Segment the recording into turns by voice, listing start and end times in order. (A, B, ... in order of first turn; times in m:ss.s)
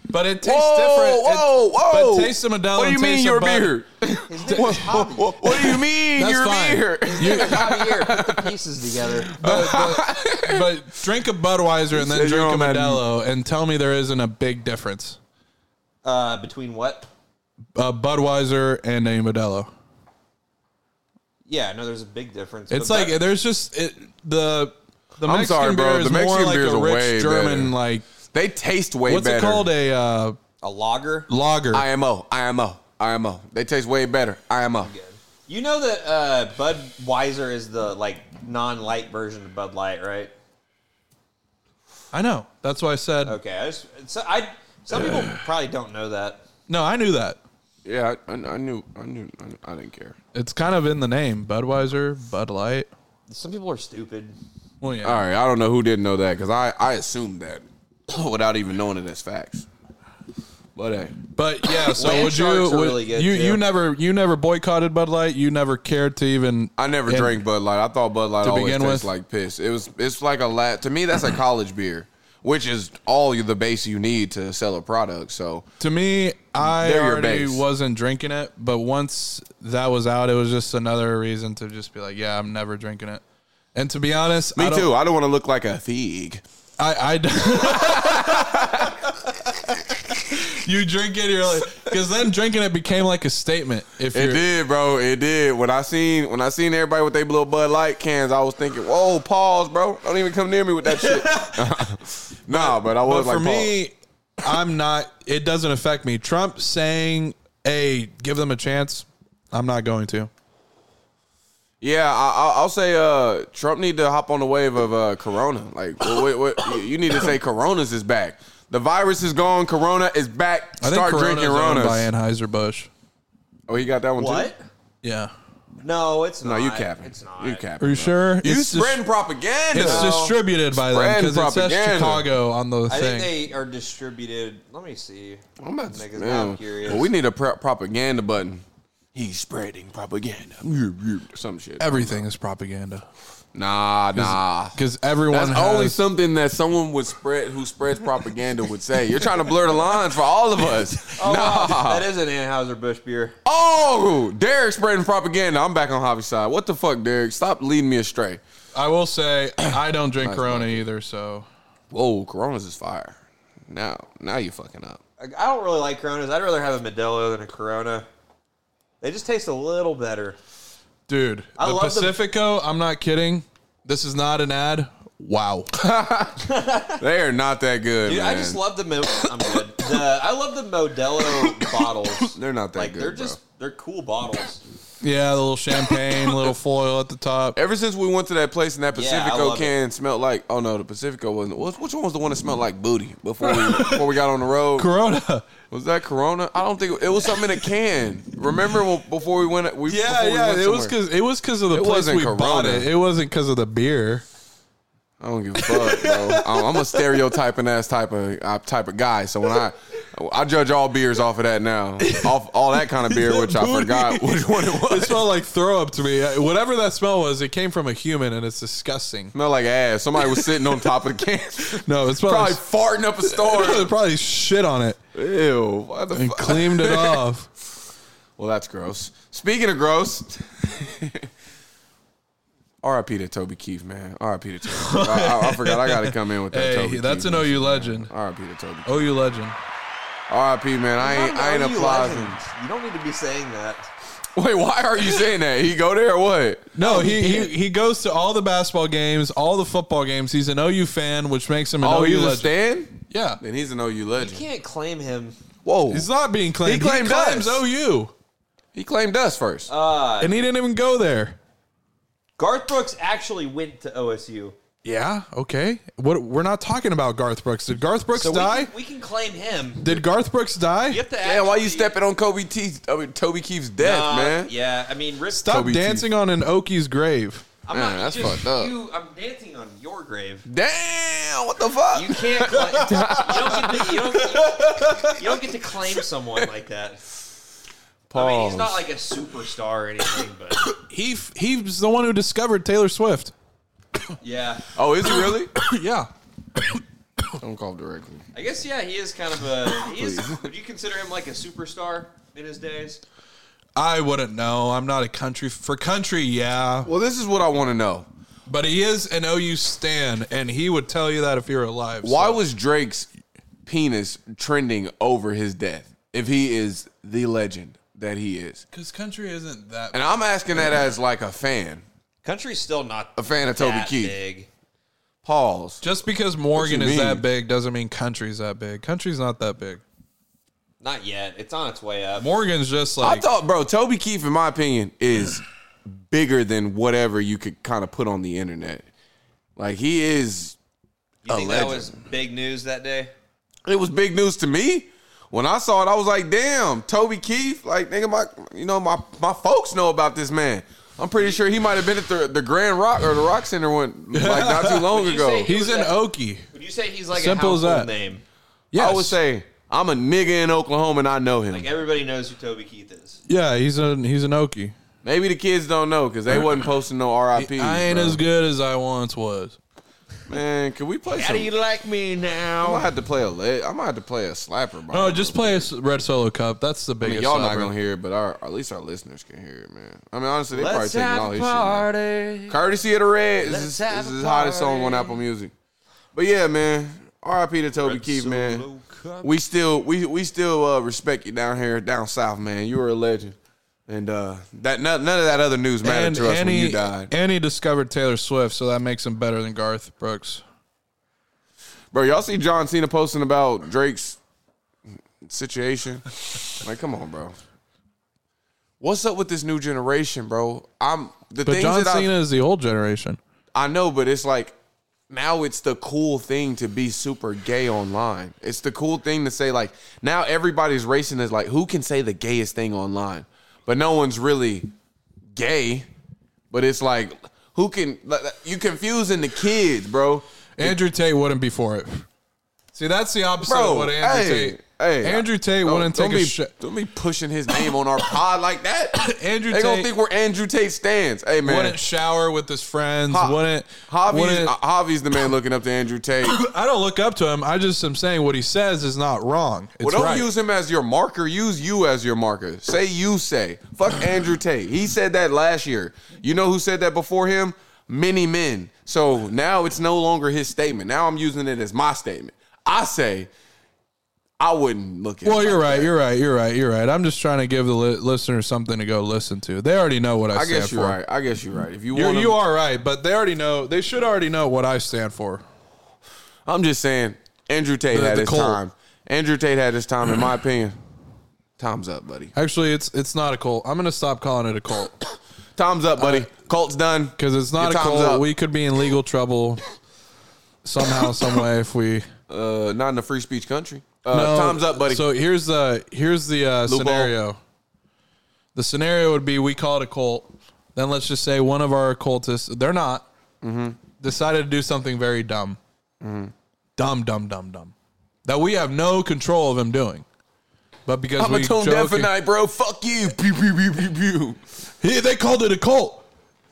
0:00.1-0:03.8 A
0:00.4-0:08.5 B
0:04.3-0:05.4 C
0:04.5-0:04.8 A
0:05.5-0:07.6 A
0:07.0-0:09.3 C
0:09.1-0:10.8 B
0:09.4-0:15.2 A
0:11.9-0:13.0 B
0:16.0-0:17.1 C
0:17.8-0:19.7 A
0:21.4-0:23.2 C
0:22.7-0:28.0 A
0:25.2-0:27.7 B
0:28.3-0:29.7 B
0:29.1-0:30.4 A
0:30.6-0:31.3 C
0:31.3-0:31.8 A
0:31.7-0:34.9 B
0:34.8-0:40.3 C
0:42.1-0:43.4 A
0:43.2-0:46.4 C
0:44.9-0:45.4 B
0:46.7-0:47.4 A
0:47.8-0:50.2 B
0:50.3-0:52.9 A
0:53.3-0:54.4 C
0:54.8-0:55.2 A
0:55.0-0:59.6 B
1:00.8-1:01.2 B
1:01.3-1:07.4 A
1:01.9-1:03.6 C
1:06.8-1:15.6 B
1:08.4-1:09.1 A
1:15.8-1:23.2 A
1:16.6-1:17.6 B
1:23.7-1:24.9 A
1:24.6-1:26.4 B
1:26.8-1:34.4 A
1:27.7-1:29.0 B
1:34.1-1:43.7 B
1:41.0-1:41.7 A
1:42.5-1:50.3 A
1:51.8-2:02.1 B
2:00.8-2:02.9 A
2:03.7-2:04.5 B
2:04.2-2:04.6 C
2:05.0-2:05.3 A
2:05.8-2:07.6 C
2:06.4-2:12.3 B
2:07.8-2:09.0 A
2:09.7-2:13.3 A
2:09.8-2:10.4 C
2:12.9-2:17.1 C
2:15.6-2:22.2 B
2:21.8-2:23.0 A
2:23.5-2:24.8 B
2:24.1-2:26.0 A
2:25.3-2:32.0 B
2:31.1-2:33.4 C
2:33.4-2:38.4 B
2:38.7-2:41.5 A
2:40.2-2:40.8 B
2:41.9-2:45.0 B
2:45.2-2:48.1 C
2:49.0-2:50.4 C
2:51.1-2:55.7 A
2:51.6-2:52.2 C
2:55.7-2:56.4 B
2:56.4-2:57.0 C
2:57.0-2:58.6 B
2:58.0-3:04.6 C
3:01.5-3:01.8 A
3:02.3-3:03.4 B
3:05.0-3:07.6 A
3:07.6-3:14.9 B
3:08.9-3:09.7 C
3:13.4-3:14.1 A
3:14.8-3:15.5 A
3:15.7-3:20.9 B
3:19.9-3:24.2 A
3:21.7-3:22.9 B
3:25.2-3:35.3 B
3:25.6-3:27.2 A
3:32.0-3:32.4 A
3:33.1-3:39.3 A
3:39.3-3:43.9 B
3:40.3-3:40.6 A
3:41.6-3:42.6 A
3:43.2-3:45.0 A
3:45.1-3:47.2 B
3:46.1-3:47.5 A
3:48.4-3:51.3 B
3:52.8-3:59.1 B
3:54.7-3:58.1 A
3:58.8-3:59.6 A
4:00.3-4:02.4 B
4:01.0-4:03.9 C
4:04.3-4:07.5 B
4:06.7-4:12.5 A
4:11.8-4:14.4 B
4:13.1-4:13.4 A
4:14.2-4:15.4 C
4:15.6-4:16.1 B
4:15.9-4:18.1 A
4:16.6-4:17.6 B
4:18.7-4:19.7 B
4:19.7-4:20.4 C
4:20.2-4:21.4 A
4:22.4-4:24.6 C
4:24.8-4:28.7 A
4:28.1-4:30.0 C
4:29.8-4:31.0 A
4:30.9-4:31.9 C
4:31.2-4:34.5 B
4:33.8-4:35.6 C
4:35.3-4:37.5 A
4:35.5-4:36.0 B
4:37.6-4:40.5 C
4:37.7-4:38.7 B
4:40.5-4:43.9 B
4:41.9-4:47.0 C
4:42.7-4:43.0 A
4:43.9-4:45.2 A
4:48.1-4:48.8 B
4:48.1-4:50.7 C
4:50.8-4:53.3 A
4:54.2-4:54.6 C
4:54.7-4:55.5 B
4:55.1-4:56.1 A
4:57.4-4:58.2 B
4:58.3-5:03.0 C
4:59.8-5:00.5 B
5:03.8-5:06.9 A
5:06.8-5:08.1 B
5:08.5-5:12.4 A
5:12.0-5:13.1 B
5:13.6-5:18.6 B
5:18.7-5:20.1 A
5:19.9-5:21.8 B
5:22.2-5:24.5 C
5:23.2-5:24.1 B
5:25.2-5:25.8 B
5:25.8-5:29.8 A
5:26.6-5:27.2 B
5:30.8-5:32.3 C
5:32.2-5:33.3 A
5:33.0-5:38.8 B
5:39.6-5:40.6 B
5:41.2-5:43.1 C
5:41.3-5:41.9 B
5:43.6-5:55.5 B
5:54.1-5:54.9 A
5:54.9-5:56.0 C
5:55.4-5:56.5 A
5:56.5-5:58.2 C
5:57.1-5:57.9 A
5:58.7-5:59.2 A
5:58.7-6:01.7 B
6:01.5-6:03.2 C
6:03.3-6:04.7 A
6:05.0-6:08.2 B
6:07.3-6:09.6 A
6:10.3-6:11.5 B
6:11.1-6:12.9 C
6:12.6-6:15.7 B
6:14.9-6:17.7 A
6:17.0-6:21.9 B
6:20.5-6:22.6 C
6:22.5-6:25.5 B
6:23.4-6:25.2 C
6:26.1-6:28.6 B
6:27.8-6:29.3 C
6:29.2-6:33.4 B
6:33.9-6:37.1 B
6:35.8-6:40.4 A
6:41.9-6:44.2 B
6:45.2-6:47.4 B
6:48.8-6:52.1 B
6:51.4-6:53.2 A
6:53.5-6:54.5 B
6:55.1-7:04.7 B
7:05.3-7:05.9 B
7:06.5-7:10.8 B
7:10.6-7:12.0 A
7:12.7-7:16.5 A
7:13.4-7:21.8 B
7:19.0-7:19.9 A
7:21.4-7:24.5 A
7:23.1-7:26.4 B
7:26.2-7:30.2 A
7:29.8-7:43.3 B
7:44.4-7:45.9 B
7:45.2-7:51.0 A
7:50.3-7:52.4 B
7:51.9-7:55.4 A
7:56.4-8:00.8 B
7:57.9-7:58.6 A
8:01.6-8:02.3 B
8:02.3-8:05.0 A
8:05.6-8:08.3 B
8:06.0-8:06.3 A
8:07.2-8:09.6 A
8:10.6-8:12.0 A
8:12.3-8:15.1 B
8:14.1-8:17.4 A
8:16.6-8:17.1 B
8:18.5-8:23.0 A
8:23.4-8:23.8 B
8:24.0-8:25.6 A
8:26.0-8:26.3 B
8:26.8-8:27.7 A
8:28.2-8:30.0 A
8:30.8-8:32.1 A
8:31.2-8:34.4 B
8:34.8-8:36.0 A